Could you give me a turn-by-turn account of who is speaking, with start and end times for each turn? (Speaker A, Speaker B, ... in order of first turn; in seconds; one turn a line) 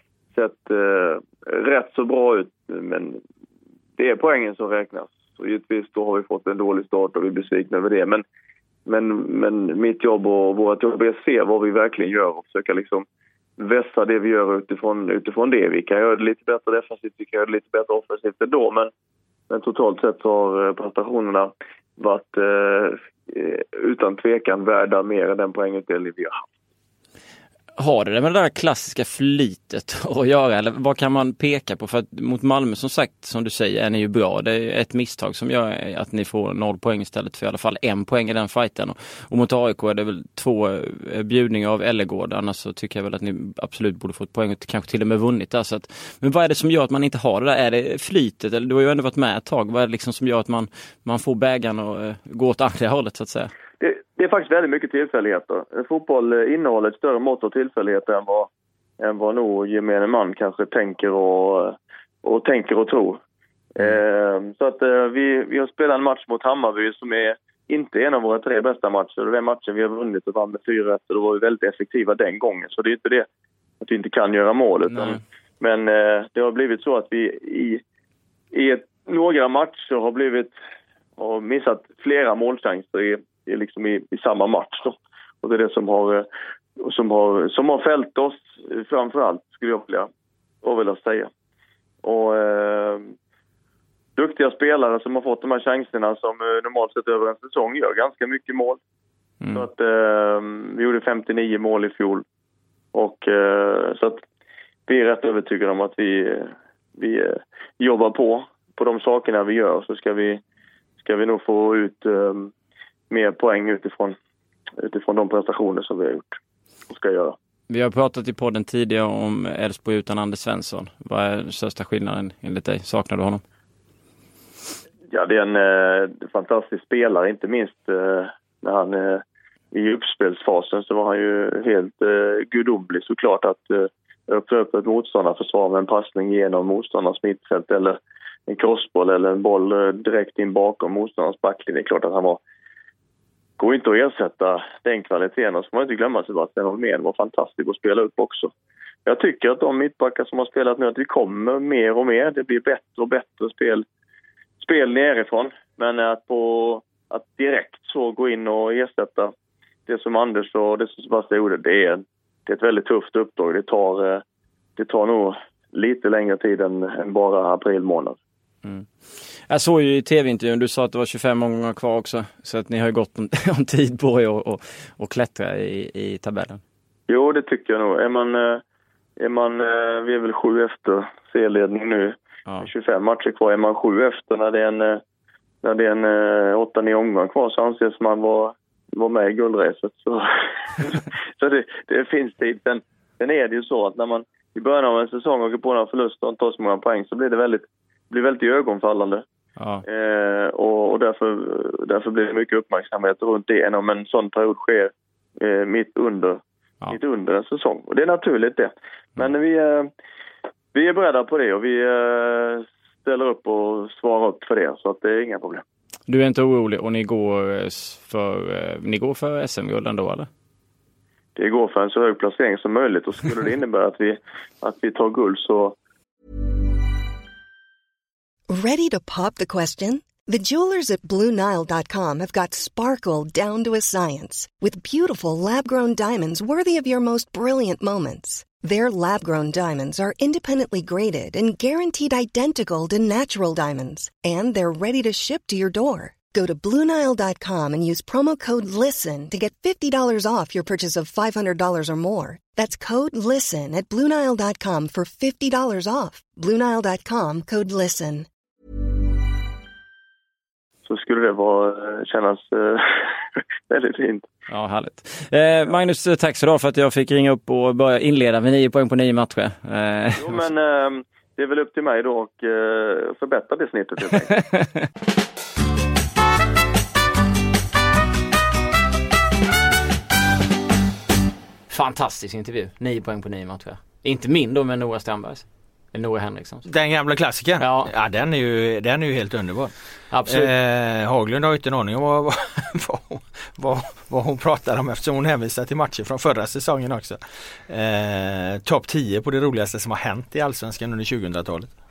Speaker A: 0.3-3.2
Speaker A: 4.0-8.2
Speaker A: 8.9-13.1
Speaker A: 13.6-18.9
Speaker A: 19.5-26.4
Speaker B: 27.8-53.5
Speaker A: 53.8-58.5
Speaker A: 59.0-63.2
Speaker A: 63.8-73.3
Speaker A: 73.8-77.8
Speaker A: 78.5-80.5
Speaker A: 81.2-86.3
Speaker A: 86.8-90.1
Speaker A: 90.6-91.3
Speaker A: 92.0-93.1
Speaker A: 94.2-98.8
Speaker A: 99.5-102.2
Speaker A: 102.9-104.2
Speaker A: 104.9-110.4
Speaker A: 111.0-112.5
Speaker A: 113.1-114.2
Speaker A: 114.8-116.4
Speaker A: 116.9-117.4
Speaker B: 117.7-123.4
Speaker A: 125.1-142.4
Speaker A: 143.6-148.5
Speaker A: 149.1-153.9
Speaker A: 154.6-159.3
Speaker A: 159.9-164.2
Speaker A: 164.8-168.2
Speaker B: 169.5-176.6
Speaker A: 177.1-178.6
Speaker A: 179.2-185.0
Speaker A: 185.6-199.2
Speaker A: 199.9-209.9
Speaker A: 210.7-215.6
Speaker B: 216.1-220.3
Speaker A: 221.4-225.8
Speaker C: 228.5-258.3
Speaker A: 260.9-264.3
Speaker B: 264.5-270.4
Speaker A: 270.2-274.4
Speaker B: 281.7-286.7
Speaker D: 286.6-289.7
Speaker B: 287.6-287.9
Speaker B: 290.1-290.5
Speaker D: 290.3-301.7